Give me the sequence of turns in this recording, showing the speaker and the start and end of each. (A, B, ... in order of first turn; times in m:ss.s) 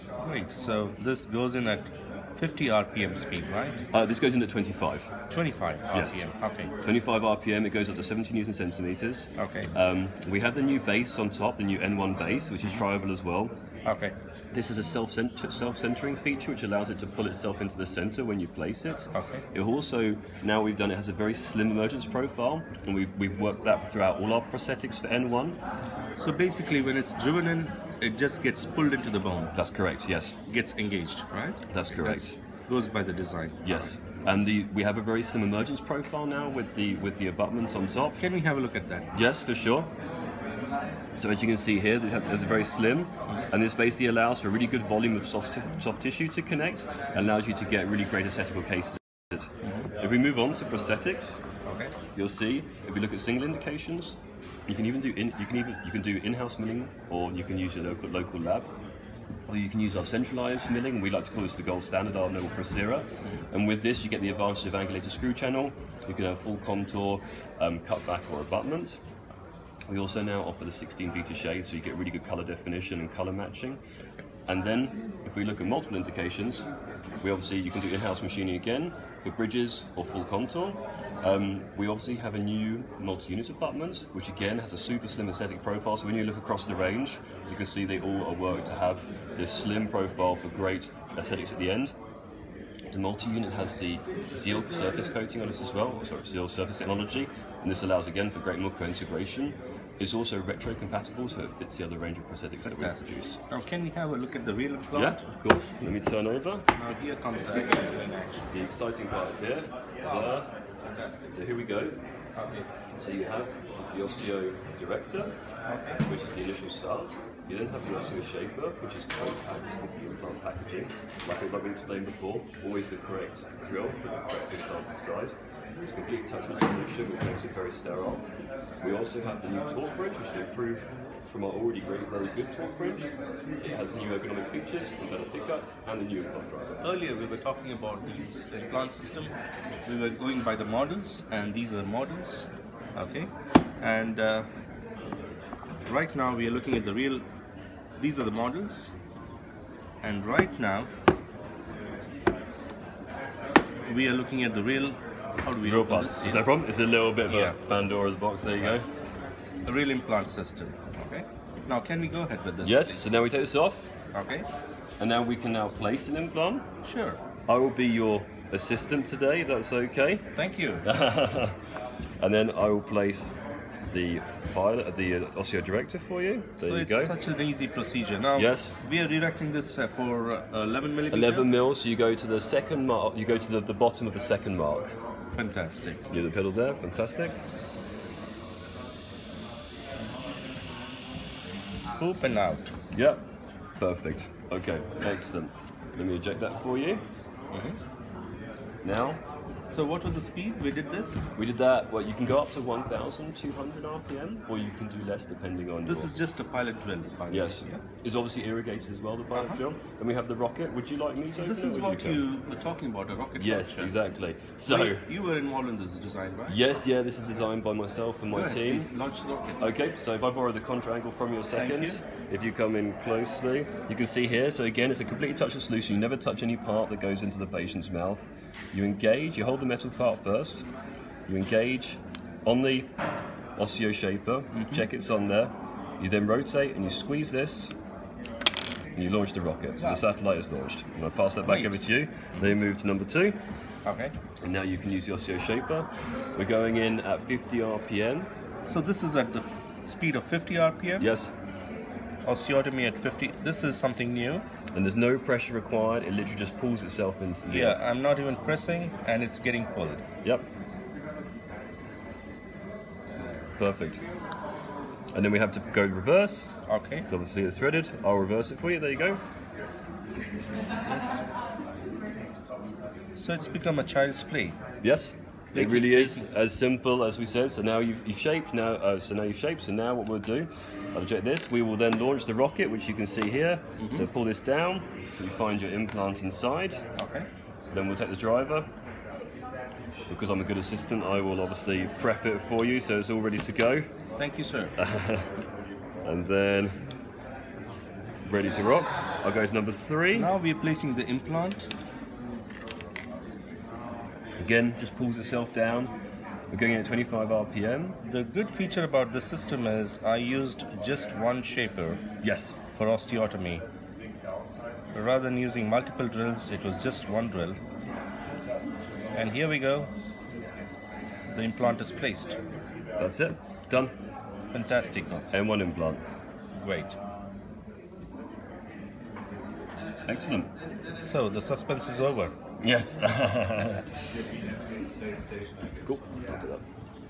0:00.2-0:03.8 A
0:03.9-0:05.1 B
0:05.3-0:06.7 A
0:05.9-0:06.3 B
0:06.8-0:13.5 B
0:09.4-0:09.7 A
0:13.8-0:14.1 A
0:14.5-0:25.6 B
0:19.1-0:19.4 A
0:26.2-0:29.5 A
0:29.5-0:30.4 B
0:30.5-0:34.4 A
0:31.7-0:32.4 B
0:33.6-0:38.2 B
0:38.2-0:39.1 A
0:39.1-0:39.9 B
0:41.2-0:51.4 B
0:49.6-0:49.9 A
0:51.6-0:51.9 A
0:52.1-0:54.1 B
0:54.7-0:58.7 B
0:59.5-1:09.0 B
1:09.9-1:13.8 B
1:14.5-1:16.7 B
1:17.2-1:31.9 B
1:32.9-1:43.4 B
1:42.6-1:45.2 A
1:44.9-1:46.6 B
1:46.8-1:48.6 A
1:48.5-1:50.5 B
1:50.0-1:51.3 A
1:51.3-1:52.0 B
1:52.4-1:52.7 A
1:53.0-1:55.3 B
1:55.7-1:56.0 A
1:56.0-2:08.2 B
2:08.8-2:16.8 B
2:16.8-2:19.3 A
2:19.8-2:23.3 A
2:23.8-2:24.4 A
2:25.8-2:27.2 A
2:28.0-2:28.9 A
2:30.0-2:30.9 A
2:33.9-2:36.5 A
2:35.6-2:38.9 B
2:37.3-2:37.7 A
2:39.6-2:43.1 A
2:42.6-2:43.9 B
2:44.1-2:44.5 A
2:45.0-2:46.6 B
2:46.8-2:47.2 A
2:47.5-2:50.3 B
2:50.3-2:50.8 A
2:50.8-2:51.6 B
2:52.2-2:53.3 B
2:53.9-2:57.1 B
2:56.6-3:01.4 A
2:58.4-2:58.8 B
3:01.1-3:04.9 B
3:05.3-3:06.0 A
3:06.1-3:07.4 B
3:12.0-3:12.7 A
3:12.9-3:13.2 B
3:13.8-3:17.0 B
3:17.5-3:17.8 A
3:18.8-3:19.2 B
3:19.6-3:21.2 A
3:21.4-3:26.1 B
3:25.8-3:27.8 A
3:27.3-3:32.2 B
3:29.3-3:29.6 A
3:31.4-3:34.0 A
3:33.4-3:35.1 B
3:34.7-3:36.6 A
3:36.5-3:38.9 B
3:38.3-3:39.7 A
3:39.6-3:50.6 B
3:41.5-3:42.0 A
3:51.3-3:52.9 B
3:53.6-3:57.7 B
3:54.5-3:54.8 A
3:59.0-4:03.4 B
3:59.8-4:00.0 A
4:01.4-4:01.8 A
4:03.8-4:04.1 A
4:04.4-4:08.3 B
4:08.6-4:11.1 A
4:11.0-4:11.3 B
4:12.2-4:14.4 A
4:14.7-4:17.8 B
4:17.5-4:20.0 A
4:23.6-4:24.0 B
4:25.1-4:26.5 B
4:26.7-4:27.1 A
4:27.1-4:29.2 B
4:30.8-4:31.2 A
4:33.2-4:34.6 A
4:34.8-4:46.8 B
4:35.5-4:36.3 A
4:43.8-4:44.1 A
4:47.0-4:47.3 A
4:47.7-4:48.7 B
4:50.1-4:53.9 B
4:54.2-4:54.7 A
4:54.8-4:55.3 B
4:56.0-4:56.8 B
4:58.2-5:00.3 B
5:00.1-5:01.7 A
5:04.4-5:05.9 B
5:06.5-5:08.0 B
5:08.0-5:12.0 A
5:12.2-5:12.5 B
5:12.7-5:13.6 A
5:14.9-5:17.6 A
5:19.1-5:19.9 A
5:21.3-5:22.4 A
5:23.0-5:23.9 B
5:24.5-5:25.3 A
5:25.3-5:26.0 B
5:26.6-5:27.0 A
5:30.1-5:30.5 B
5:31.0-5:32.3 A
5:32.6-5:34.0 B
5:35.8-5:36.6 B